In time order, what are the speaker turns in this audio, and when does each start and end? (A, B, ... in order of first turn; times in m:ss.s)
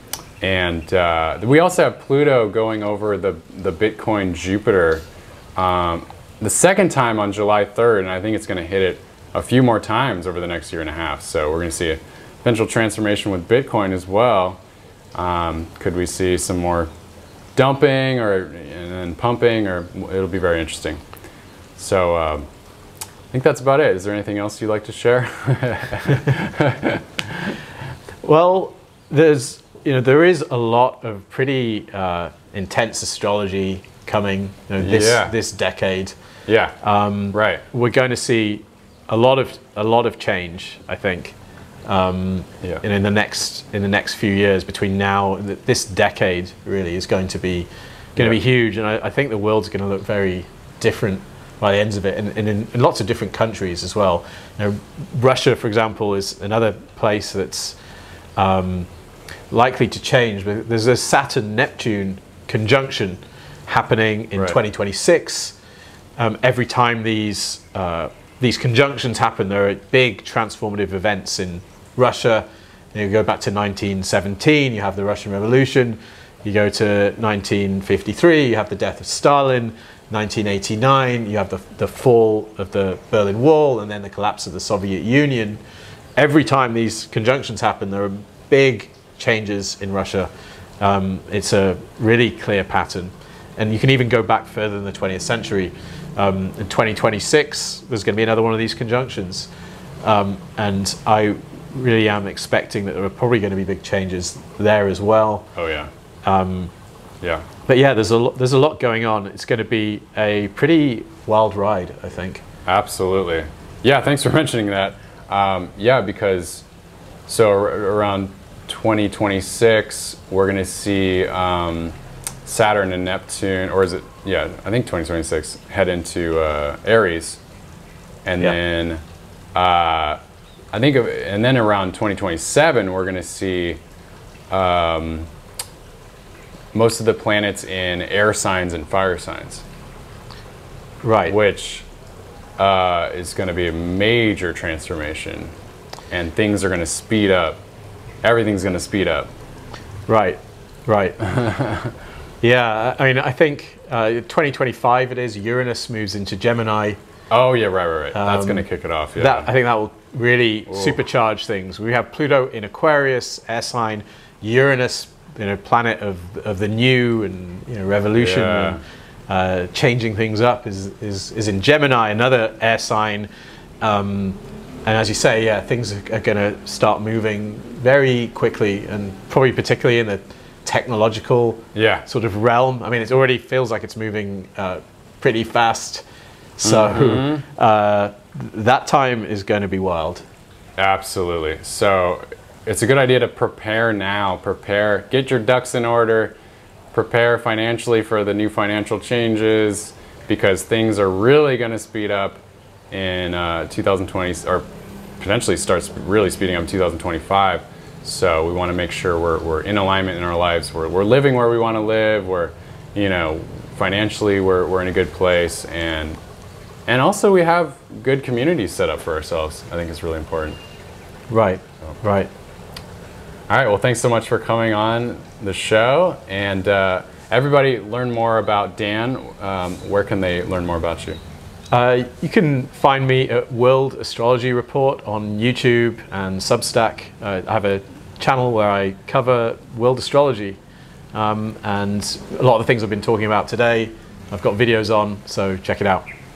0:00.4-0:05.0 A
0:05.6-0:14.6 A
0:15.1-0:16.9 A
0:17.6-0:21.0 A
0:21.8-0:22.5 A
0:23.3-0:27.6 A
0:28.2-0:36.1 B
0:34.8-0:35.3 A
0:36.5-0:36.8 A
0:36.8-0:57.8 B
0:37.3-0:37.6 A
0:58.4-0:58.9 B
0:59.5-1:05.6 B
1:06.2-1:25.6 B
1:26.2-1:30.3 B
1:30.8-1:39.5 B
1:40.0-1:45.5 B
1:45.6-1:45.9 A
1:46.2-1:46.7 B
1:47.2-1:47.5 A
1:47.6-1:52.4 B
1:52.6-1:56.6 A
1:57.3-2:07.4 A
2:08.2-2:09.0 A
2:09.5-2:10.2 A
2:10.7-2:13.8 A
2:14.5-2:15.3 A
2:16.7-2:19.6 A
2:21.0-2:21.4 B
2:21.2-2:21.8 A
2:22.6-2:25.5 A
2:26.1-2:27.6 A
2:28.2-2:29.3 A
2:30.1-2:31.2 B
2:31.2-2:31.9 A
2:32.4-2:37.0 B
2:37.3-2:39.5 A
2:38.1-2:53.3 B
2:40.7-2:41.0 A
2:48.2-2:48.8 A
2:53.8-3:06.0 B
3:01.7-3:02.0 A
3:06.6-3:10.2 B
3:06.6-3:07.4 A
3:10.8-3:16.4 A
3:16.9-3:24.6 A
3:25.2-3:36.2 A
3:36.9-3:40.6 A
3:41.3-3:42.3 B
3:43.5-3:51.2 A
3:51.7-4:00.6 B
4:01.1-4:06.0 B